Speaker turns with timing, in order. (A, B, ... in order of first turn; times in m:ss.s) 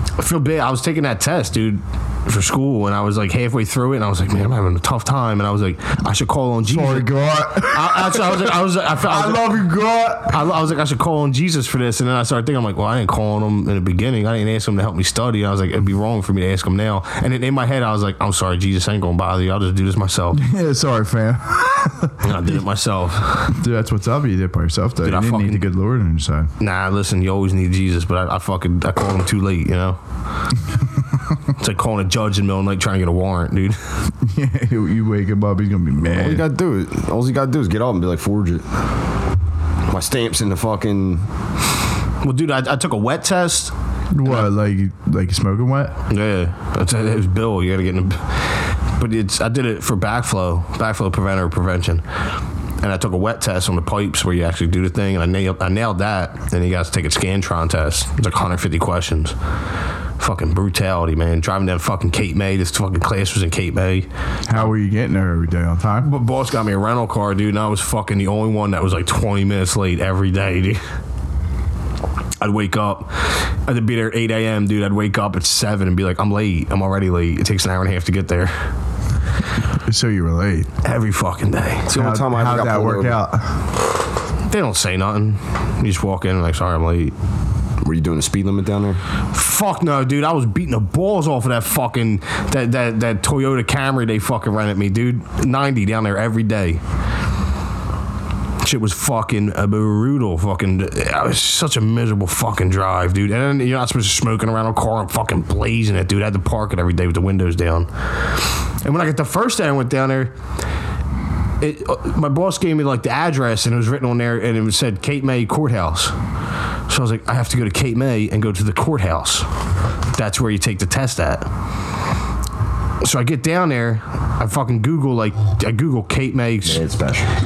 0:00.2-0:09.6 A
0:06.6-0:08.5 B
0:09.0-0:10.4 B
0:10.2-0:20.4 A
0:20.3-0:22.6 B
0:22.2-0:23.6 A
0:23.5-0:26.5 B
0:25.0-0:25.7 A
0:26.6-0:30.0 A
0:31.6-0:33.8 A
0:34.2-0:36.4 B
0:36.1-0:38.7 C
0:39.9-0:41.3 C
0:42.2-0:44.5 A
0:44.1-0:45.9 B
0:46.1-0:52.0 A
0:52.8-0:59.3 A
1:00.2-1:04.7 A
1:04.5-1:06.1 B
1:06.0-1:10.8 A
1:12.4-1:18.5 A
1:19.9-1:20.7 B
1:20.8-1:21.9 A
1:21.9-1:23.2 C
1:21.9-1:23.5 B
1:24.5-1:27.1 A
1:27.8-1:29.0 C
1:29.3-1:36.8 A
1:38.6-1:50.3 A
1:51.6-1:56.1 A
1:56.9-1:59.5 A
2:00.1-2:01.5 A
2:03.0-2:06.8 A
2:06.6-2:07.3 C